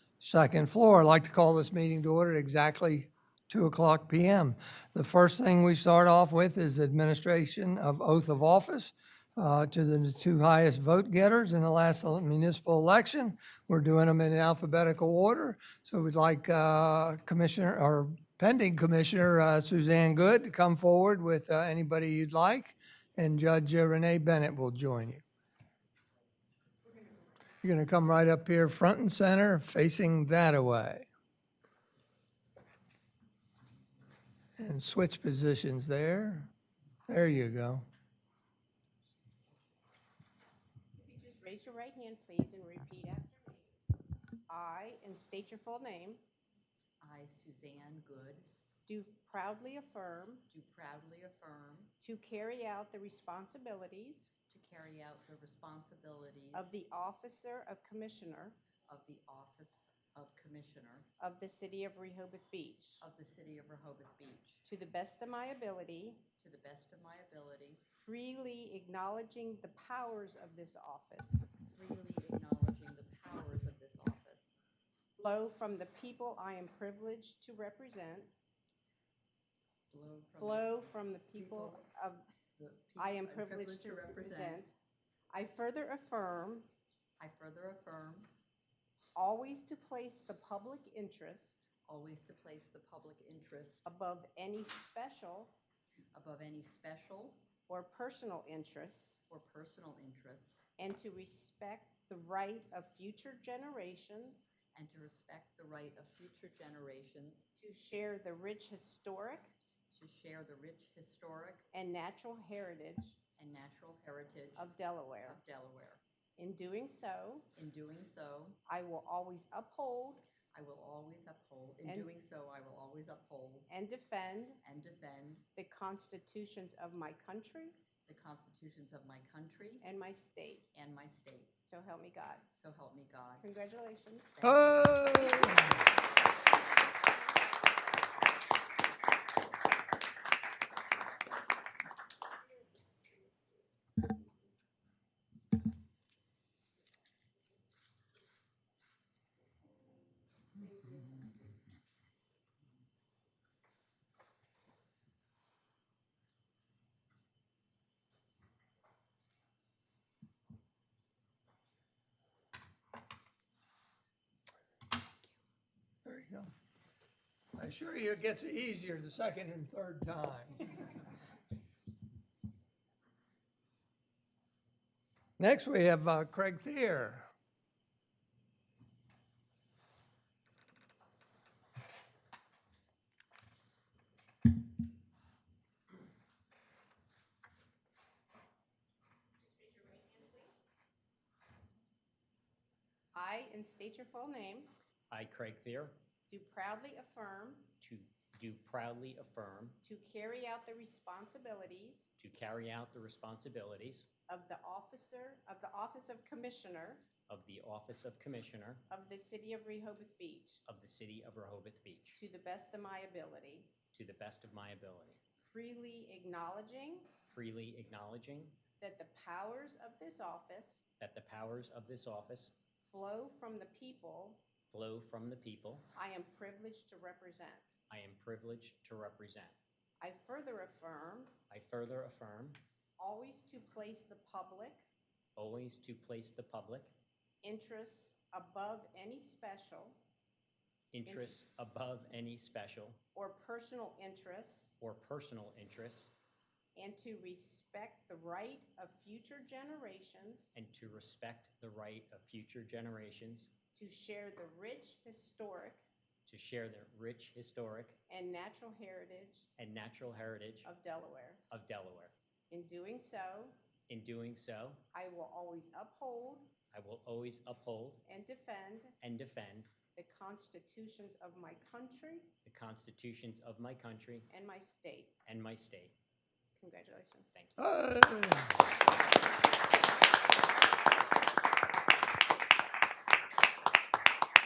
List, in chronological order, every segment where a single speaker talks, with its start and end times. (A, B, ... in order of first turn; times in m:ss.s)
0:00.2-0:25.2 A
0:27.6-0:31.1 A
0:34.6-0:36.5 A
0:37.1-0:37.8 A
0:40.9-0:43.8 B
0:44.5-0:46.2 B
0:47.0-0:48.5 C
0:48.8-0:50.4 B
0:50.5-0:51.9 C
0:52.0-0:54.3 B
0:54.5-0:56.7 C
0:56.5-0:58.6 B
0:58.9-1:01.1 C
1:01.2-1:03.0 B
1:03.0-1:04.6 C
1:04.6-1:06.2 B
1:06.4-1:07.8 C
1:07.9-1:11.4 B
1:11.6-1:14.6 C
1:15.2-1:18.3 B
1:19.9-1:21.8 C
1:20.4-1:22.2 B
1:22.6-1:24.6 C
1:23.0-1:24.7 B
1:25.3-1:26.7 B
1:27.2-1:28.3 C
1:29.1-1:31.7 B
1:31.8-1:33.8 C
1:33.8-1:35.5 B
1:36.1-1:37.4 C
1:37.7-1:39.2 B
1:39.3-1:40.6 C
1:40.8-1:44.5 B
1:44.7-1:47.5 C
1:47.5-1:49.5 B
1:49.9-1:51.6 C
1:51.7-1:53.2 B
1:53.4-1:54.7 C
1:54.6-1:55.4 B
1:55.2-1:56.0 C
1:56.4-1:57.4 B
1:57.5-1:58.6 C
1:58.6-2:00.2 B
2:00.5-2:03.7 C
2:01.8-2:02.1 B
2:03.7-2:04.6 B
2:04.6-2:05.4 C
2:05.5-2:07.8 B
2:08.0-2:09.8 C
2:09.8-2:10.6 B
2:10.7-2:11.5 C
2:11.6-2:12.4 B
2:12.5-2:13.5 C
2:13.4-2:14.3 B
2:14.3-2:15.5 C
2:14.4-2:15.6 A
2:46.0-2:46.5 A
2:47.5-2:50.7 A
2:55.4-2:57.3 A
3:09.4-3:10.5 B
3:13.1-3:14.7 B
3:15.1-3:15.9 D
3:16.3-3:17.7 B
3:17.8-3:19.8 D
3:19.8-3:22.1 B
3:22.2-3:24.1 D
3:24.3-3:27.0 B
3:27.3-3:28.8 D
3:28.9-3:30.6 B
3:30.6-3:32.2 D
3:32.2-3:33.7 B
3:33.9-3:35.2 D
3:35.4-3:37.1 B
3:37.2-3:38.6 D
3:38.8-3:40.8 B
3:41.0-3:42.5 D
3:42.8-3:44.4 B
3:44.7-3:45.8 D
3:46.0-3:47.7 B
3:47.9-3:49.5 D
3:50.0-3:51.3 B
3:51.5-3:52.6 D
3:53.0-3:54.9 B
3:55.4-3:56.9 D
3:57.4-4:00.0 B
4:00.9-4:03.0 D
4:01.0-4:01.4 B
4:03.1-4:04.7 B
4:04.8-4:06.1 D
4:06.7-4:10.5 B
4:10.5-4:13.5 D
4:13.7-4:15.8 B
4:16.2-4:18.0 D
4:18.1-4:19.5 B
4:19.6-4:20.7 D
4:20.6-4:21.4 B
4:21.5-4:22.1 D
4:22.5-4:23.5 B
4:23.9-4:24.8 D
4:24.9-4:26.5 B
4:26.7-4:28.0 D
4:28.0-4:28.9 B
4:29.0-4:29.7 D
4:29.9-4:32.3 B
4:32.4-4:34.3 D
4:34.3-4:35.1 B
4:35.2-4:35.9 D
4:36.6-4:37.3 B
4:37.3-4:37.8 D
4:37.6-4:38.5 A